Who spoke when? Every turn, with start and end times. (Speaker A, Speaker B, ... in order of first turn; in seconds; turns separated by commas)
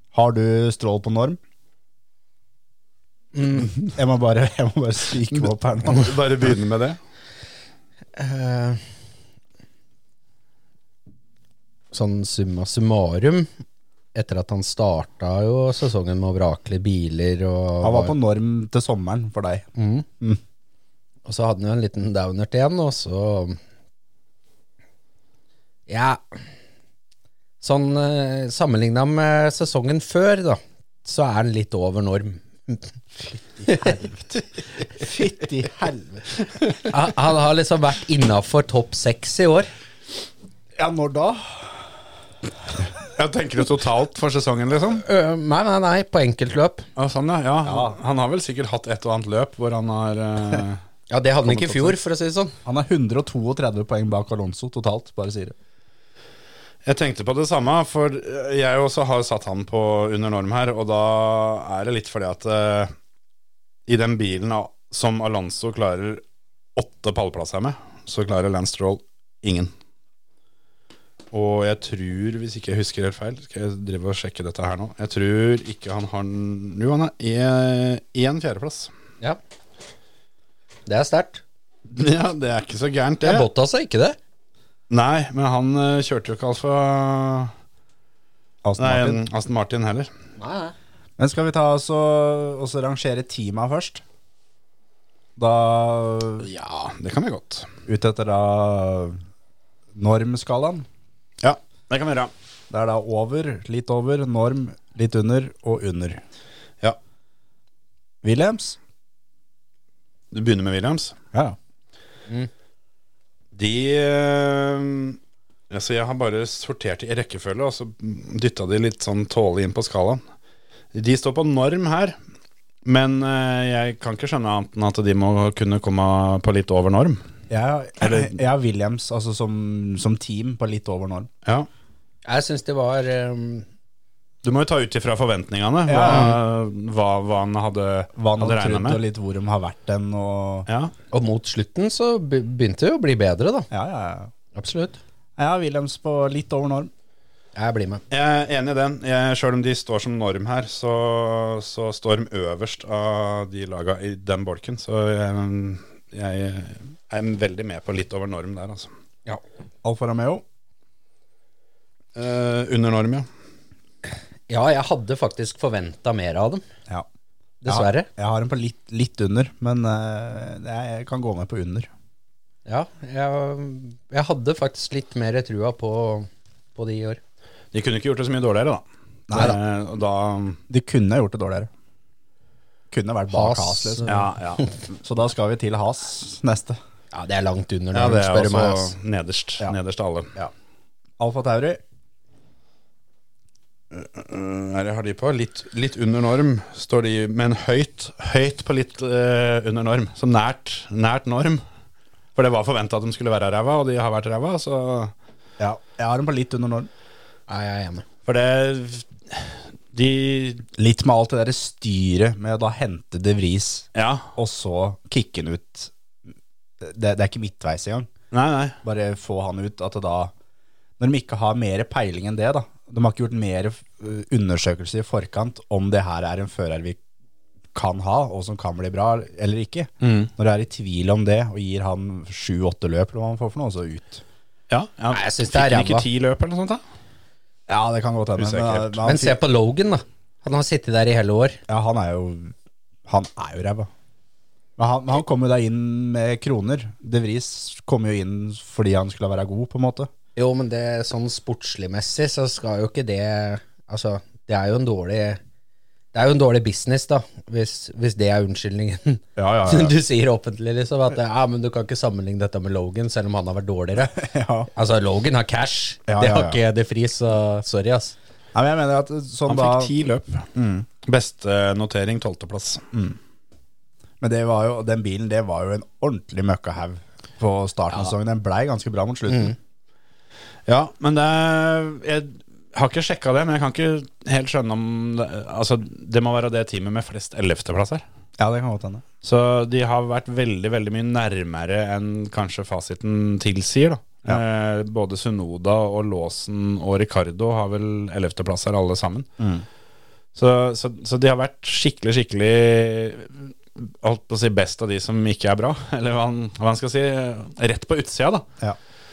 Speaker A: 0.1-1.4, Speaker B: 3.4-3.7, Speaker A: 3.5-6.2, Speaker C: 5.8-7.0, Speaker B: 8.2-8.8, Speaker B: 11.9-13.5, Speaker B: 14.1-18.1, Speaker A: 17.8-19.7, Speaker B: 19.8-20.1, Speaker B: 21.2-23.6, Speaker B: 25.9-26.4, Speaker B: 27.6-34.1, Speaker A: 35.0-36.2, Speaker B: 36.9-39.7, Speaker A: 40.8-41.9, Speaker C: 43.0-45.0, Speaker B: 45.0-46.9, Speaker C: 47.0-50.8, Speaker A: 47.6-48.0, Speaker B: 51.1-52.5, Speaker C: 51.5-52.0, Speaker A: 52.6-55.5, Speaker C: 56.9-62.9, Speaker C: 63.9-66.2, Speaker C: 66.8-69.7, Speaker C: 71.3-78.9, Speaker B: 80.9-81.4, Speaker C: 81.9-83.5, Speaker B: 83.2-84.2, Speaker C: 84.9-87.5, Speaker A: 88.6-89.2, Speaker C: 88.8-90.1, Speaker B: 90.4-90.7, Speaker A: 91.2-94.0, Speaker A: 95.4-96.5, Speaker C: 96.4-97.7, Speaker A: 97.9-99.2, Speaker A: 99.9-100.9, Speaker C: 101.4-102.3, Speaker A: 102.7-106.2, Speaker A: 108.2-108.8, Speaker C: 110.3-111.2, Speaker C: 113.5-115.2, Speaker C: 115.7-120.2, Speaker C: 120.9-122.2, Speaker C: 122.8-127.2, Speaker A: 127.5-131.3, Speaker C: 128.0-128.3, Speaker B: 132.2-133.7, Speaker C: 134.4-139.0, Speaker A: 135.9-136.4, Speaker A: 138.2-140.7, Speaker C: 140.7-140.9, Speaker B: 141.1-143.7, Speaker A: 143.7-144.3, Speaker B: 144.6-145.0, Speaker A: 145.4-146.9, Speaker B: 147.6-148.0, Speaker C: 148.1-158.9, Speaker A: 159.8-160.4, Speaker C: 162.2-163.3, Speaker B: 164.5-166.6, Speaker B: 167.6-168.1, Speaker A: 167.7-171.9, Speaker B: 172.7-177.2, Speaker C: 177.7-180.6, Speaker A: 179.3-179.6, Speaker A: 180.7-181.7, Speaker A: 182.9-184.3, Speaker B: 183.3-184.2, Speaker C: 184.1-184.7, Speaker A: 185.0-186.8, Speaker B: 187.1-188.9, Speaker C: 187.9-190.3, Speaker A: 191.2-191.8, Speaker C: 193.9-201.6, Speaker C: 202.4-205.1, Speaker A: 205.6-206.9, Speaker B: 207.5-208.1, Speaker C: 208.3-210.7, Speaker A: 210.8-215.9, Speaker C: 213.9-214.3, Speaker A: 216.8-218.1, Speaker C: 218.3-218.8, Speaker A: 218.8-220.3, Speaker A: 221.0-227.0, Speaker A: 227.7-234.2, Speaker C: 230.0-230.3, Speaker C: 234.7-236.8, Speaker B: 235.1-236.1, Speaker A: 237.7-239.4, Speaker C: 238.4-239.0, Speaker B: 239.1-241.6, Speaker A: 241.7-242.5, Speaker A: 243.1-243.9, Speaker A: 244.8-250.1, Speaker B: 250.4-255.4, Speaker B: 256.1-264.2, Speaker A: 259.4-260.0, Speaker A: 264.1-264.7, Speaker B: 264.7-268.2, Speaker A: 266.1-266.6, Speaker A: 268.5-269.9, Speaker C: 269.5-270.5, Speaker A: 270.5-270.9, Speaker C: 271.0-272.8, Speaker A: 272.9-273.2, Speaker A: 274.2-279.6, Speaker C: 280.7-288.0, Speaker A: 288.4-289.1, Speaker C: 289.2-299.3, Speaker A: 299.4-299.7, Speaker C: 300.4-308.5